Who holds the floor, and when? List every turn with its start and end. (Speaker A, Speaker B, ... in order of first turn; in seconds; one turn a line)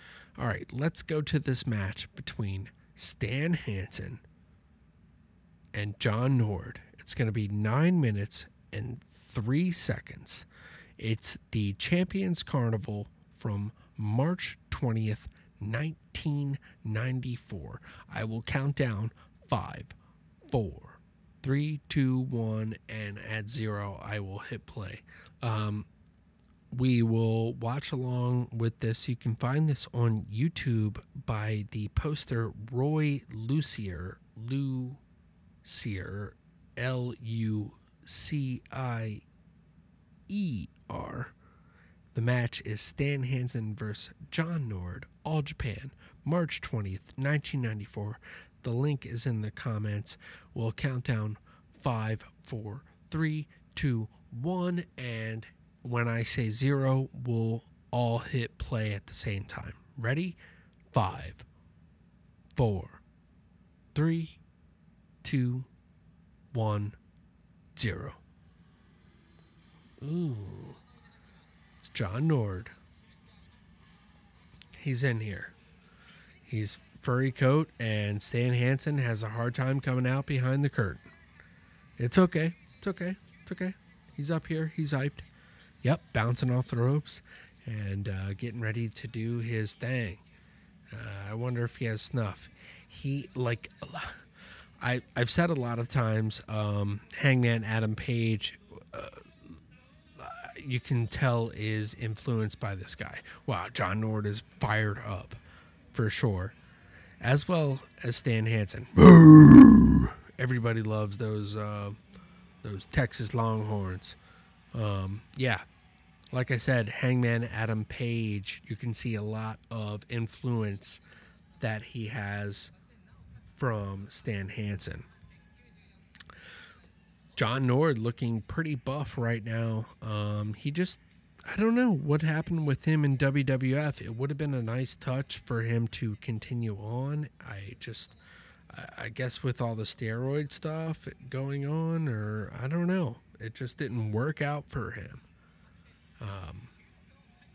Speaker A: 0.4-4.2
Speaker A: 5.7-10.4
Speaker A: 11.0-19.9
Speaker A: 20.4-25.9
Speaker A: 26.7-35.0
Speaker A: 35.6-39.2
Speaker A: 40.3-41.3
Speaker A: 42.1-60.4
Speaker A: 60.9-61.5
Speaker A: 62.5-63.0
Speaker A: 63.9-64.4
Speaker A: 65.2-65.7
Speaker A: 66.5-67.0
Speaker A: 67.7-68.2
Speaker A: 70.0-70.8
Speaker A: 71.8-72.8
Speaker A: 74.8-75.5
Speaker A: 76.5-81.1
Speaker A: 82.0-85.3
Speaker A: 85.8-90.2
Speaker A: 90.9-94.2
Speaker A: 94.8-99.2
Speaker A: 100.2-105.4
Speaker A: 105.9-106.5
Speaker A: 107.2-112.0
Speaker A: 112.6-114.2
Speaker A: 114.7-115.6
Speaker A: 116.3-121.0
Speaker A: 121.6-122.7
Speaker A: 123.5-125.1
Speaker A: 127.3-138.2
Speaker A: 138.7-145.2
Speaker A: 146.2-146.7